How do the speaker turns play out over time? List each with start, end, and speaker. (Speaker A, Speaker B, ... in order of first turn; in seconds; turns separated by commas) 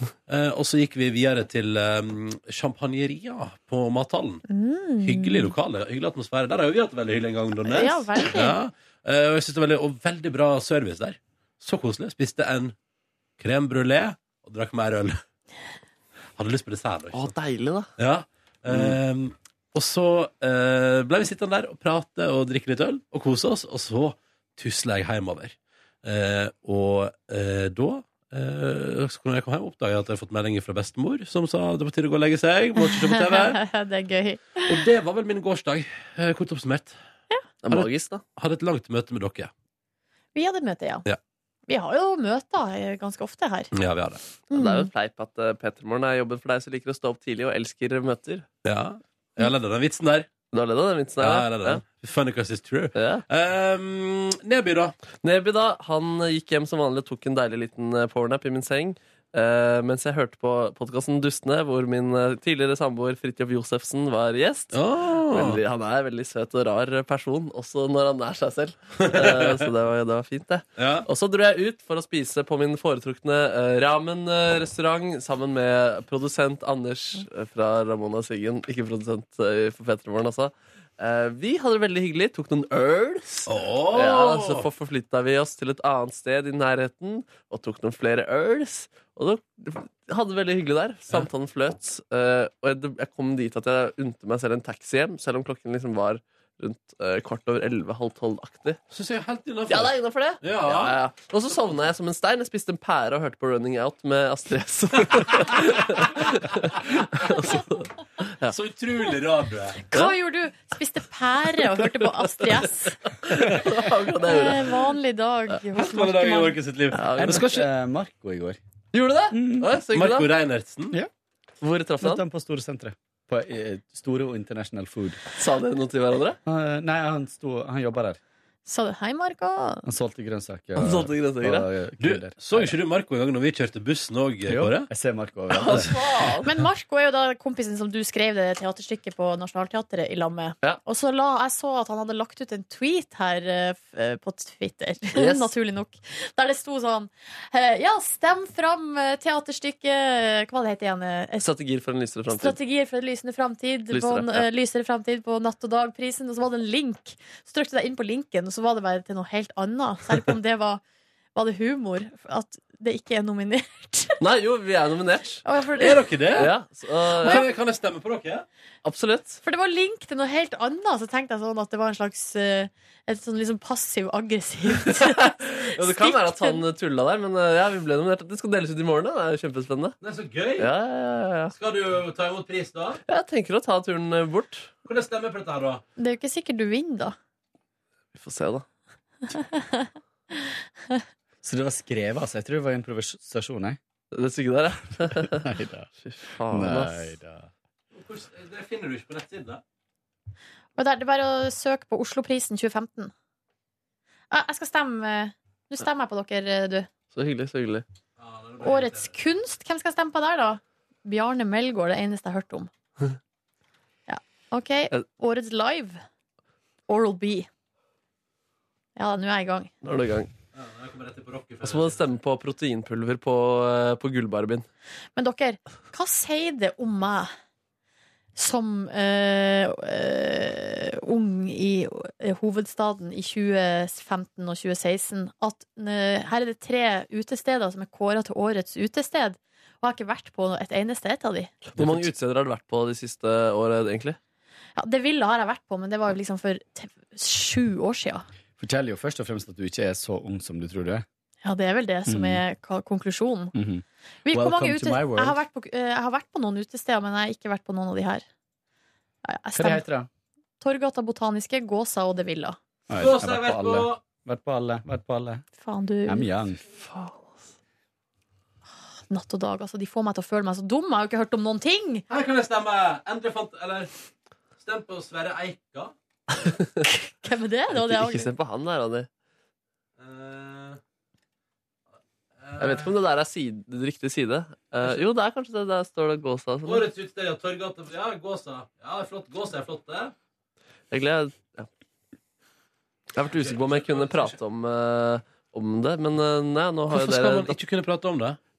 Speaker A: 0.3-4.4, Speaker B: 4.5-5.5, Speaker A: 5.0-12.7, Speaker B: 7.7-8.6, Speaker A: 13.4-15.2, Speaker A: 16.4-17.3, Speaker C: 17.1-17.9, Speaker A: 18.0-33.6, Speaker C: 18.7-18.9, Speaker B: 32.8-34.8, Speaker A: 34.7-37.0, Speaker C: 37.6-38.2, Speaker A: 37.7-39.5, Speaker B: 40.3-41.0, Speaker B: 41.7-43.7, Speaker A: 43.7-44.2, Speaker B: 44.5-44.9, Speaker C: 44.5-48.5, Speaker A: 48.6-50.3, Speaker C: 50.5-51.8, Speaker A: 51.2-54.9, Speaker C: 53.0-53.2, Speaker C: 55.2-98.8, Speaker A: 64.7-65.6, Speaker A: 69.0-69.6, Speaker A: 70.8-71.1, Speaker A: 83.5-84.7, Speaker A: 98.9-101.0, Speaker C: 99.7-107.9, Speaker A: 108.5-109.8, Speaker B: 109.9-113.0, Speaker C: 113.2-114.8, Speaker B: 114.2-116.6, Speaker A: 115.7-117.6, Speaker C: 116.9-117.6, Speaker D: 117.2-118.6, Speaker C: 118.9-120.3, Speaker D: 119.3-119.7, Speaker A: 119.9-121.0, Speaker C: 121.6-122.2, Speaker D: 122.0-125.2, Speaker C: 125.3-126.4, Speaker D: 126.5-128.2, Speaker B: 128.7-129.8, Speaker D: 129.8-132.7, Speaker C: 130.8-131.7, Speaker A: 132.0-134.9, Speaker D: 134.4-136.0, Speaker C: 135.5-136.4, Speaker B: 136.4-151.4, Speaker C: 145.1-145.5, Speaker C: 151.4-152.6, Speaker B: 152.3-160.8, Speaker C: 153.9-154.4, Speaker B: 161.3-164.2, Speaker C: 164.2-165.4, Speaker B: 165.4-166.1, Speaker A: 165.8-166.5, Speaker C: 166.3-167.4, Speaker A: 167.1-168.4, Speaker C: 168.8-169.4, Speaker B: 169.4-176.6, Speaker C: 174.9-179.9, Speaker A: 180.0-180.7, Speaker C: 180.6-181.5, Speaker A: 181.5-183.0, Speaker C: 183.1-184.7, Speaker A: 184.8-185.8, Speaker B: 186.0-187.2, Speaker C: 188.1-188.6, Speaker B: 189.3-191.0, Speaker D: 191.4-193.8, Speaker C: 194.1-195.4, Speaker D: 195.3-195.9, Speaker C: 196.0-197.1, Speaker D: 196.5-197.5, Speaker A: 197.9-199.6, Speaker B: 200.8-203.1, Speaker B: 204.3-206.9, Speaker C: 207.1-207.8, Speaker A: 208.2-209.1, Speaker B: 208.6-212.7, Speaker B: 214.1-216.0, Speaker B: 216.9-217.5, Speaker B: 218.9-219.7, Speaker C: 219.8-220.3, Speaker A: 220.5-222.2, Speaker C: 221.6-224.7, Speaker B: 225.2-227.3, Speaker B: 228.3-241.5, Speaker C: 241.8-244.2, Speaker B: 244.8-248.2, Speaker D: 248.6-251.0, Speaker B: 251.4-253.5, Speaker D: 252.1-252.4, Speaker D: 253.5-255.4, Speaker B: 254.2-258.2, Speaker B: 259.2-259.8, Speaker D: 259.6-260.1, Speaker B: 260.6-262.6, Speaker D: 262.9-265.4, Speaker A: 263.0-264.0, Speaker B: 265.6-266.3, Speaker D: 266.1-266.6, Speaker C: 266.8-267.4, Speaker B: 269.1-272.0, Speaker A: 272.1-273.9, Speaker A: 274.6-275.9, Speaker C: 276.4-276.8, Speaker B: 277.2-278.3, Speaker C: 277.7-279.1, Speaker A: 280.0-280.8, Speaker A: 282.4-282.9, Speaker C: 282.6-286.8, Speaker A: 286.6-290.1, Speaker C: 290.9-291.7, Speaker C: 293.1-297.6, Speaker A: 293.3-294.4, Speaker A: 296.9-298.4